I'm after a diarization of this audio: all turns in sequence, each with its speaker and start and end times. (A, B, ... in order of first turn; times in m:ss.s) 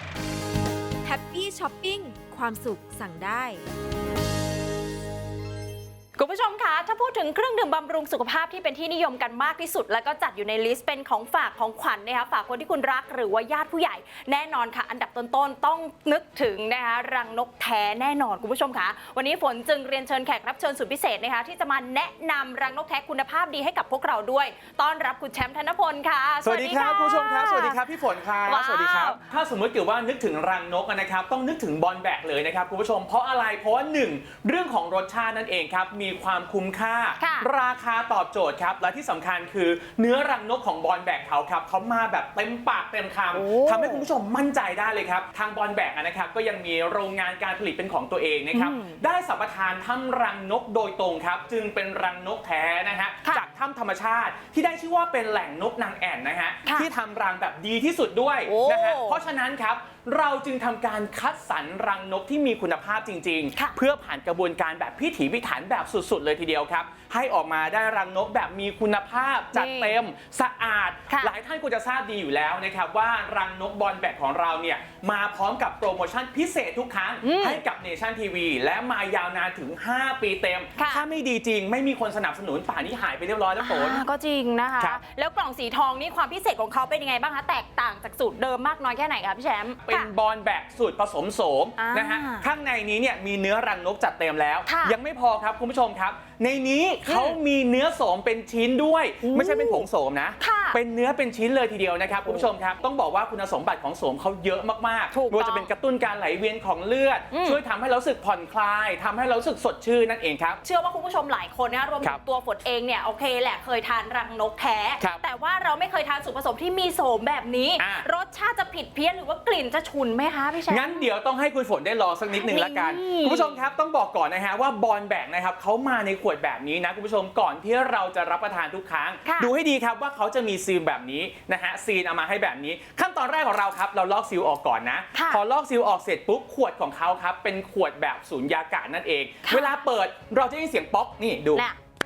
0:01.0-0:03.6 A
0:06.2-0:27.8 B
0:26.4-1:24.0 C
0:28.4-0:29.2 B
0:37.2-0:37.5 B
0:43.3-0:44.1 B
0:48.5-0:49.0 B
0:56.6-0:56.9 B
0:58.4-0:59.2 B
1:09.5-1:10.0 B
1:11.1-1:11.3 B
1:17.2-1:17.6 B
1:20.8-1:21.0 B
1:23.6-1:30.1 B
1:29.8-1:50.6 C
1:31.8-1:32.5 B
1:34.6-1:35.0 B
1:37.0-1:37.4 B
1:39.2-1:39.8 B
1:40.4-1:40.8 B
1:42.1-1:42.5 B
1:45.1-1:45.7 B
1:47.3-1:47.6 B
1:50.6-2:01.0 B
1:57.8-1:58.1 C
2:00.6-2:21.7 C
2:02.3-2:03.6 B
2:09.2-2:09.5 B
2:15.1-2:15.4 B
2:19.4-2:19.8 B